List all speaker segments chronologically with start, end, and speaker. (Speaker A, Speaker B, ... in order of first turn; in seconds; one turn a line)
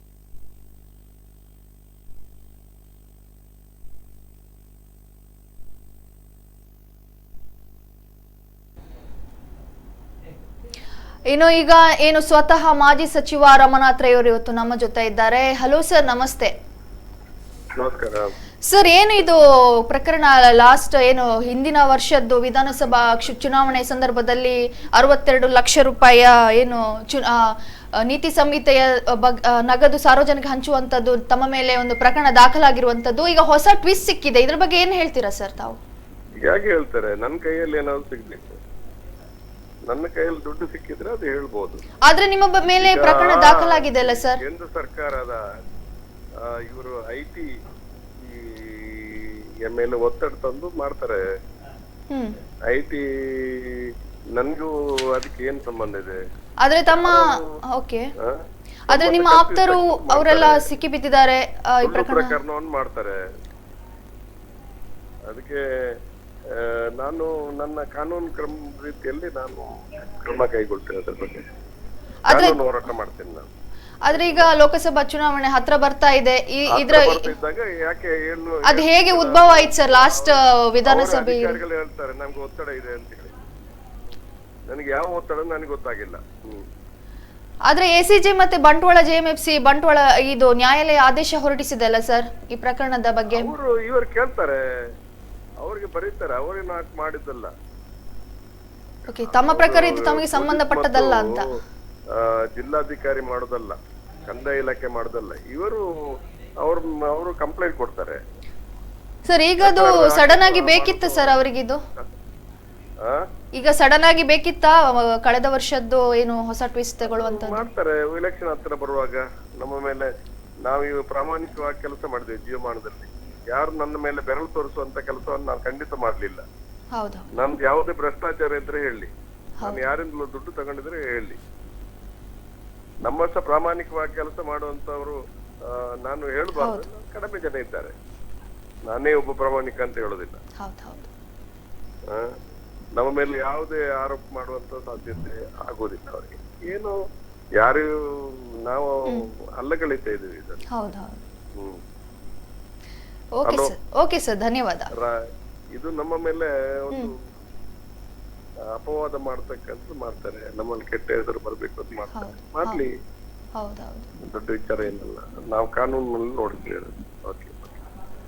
Speaker A: 11.3-16.5
Speaker B: 17.8-18.3
Speaker A: 18.6-35.8
Speaker B: 36.4-38.6
Speaker B: 39.9-41.8
Speaker A: 42.0-44.4
Speaker B: 42.8-45.4
Speaker B: 46.4-47.5
Speaker B: 48.2-51.2
Speaker A: 52.1-52.4
Speaker B: 52.7-56.2
Speaker A: 56.6-58.1
Speaker B: 56.9-57.4
Speaker B: 58.2-60.7
Speaker A: 58.9-62.4
Speaker B: 61.8-63.2
Speaker B: 65.3-66.0
Speaker B: 66.5-71.4
Speaker A: 72.3-72.6
Speaker B: 72.3-73.5
Speaker A: 74.0-77.3
Speaker B: 74.1-74.5
Speaker B: 76.7-80.3
Speaker A: 78.6-81.6
Speaker B: 80.8-83.3
Speaker B: 84.7-86.7
Speaker A: 87.7-93.5
Speaker B: 93.3-94.9
Speaker B: 95.6-97.5
Speaker A: 99.1-101.5
Speaker B: 99.3-101.4
Speaker B: 102.1-106.0
Speaker B: 106.6-108.2
Speaker A: 109.2-111.8
Speaker B: 109.6-111.4
Speaker A: 113.5-117.7
Speaker B: 117.0-120.1
Speaker B: 120.7-126.5
Speaker A: 126.9-127.2
Speaker B: 127.3-131.4
Speaker B: 133.1-137.9
Speaker A: 136.6-136.8
Speaker B: 138.9-140.4
Speaker A: 140.6-141.1
Speaker B: 143.0-147.0
Speaker B: 147.6-150.6
Speaker A: 150.7-151.2
Speaker A: 153.3-154.9
Speaker B: 153.4-153.7
Speaker B: 154.9-157.1
Speaker B: 158.7-162.9
Speaker A: 162.1-162.8
Speaker A: 163.6-164.1
Speaker B: 164.3-167.8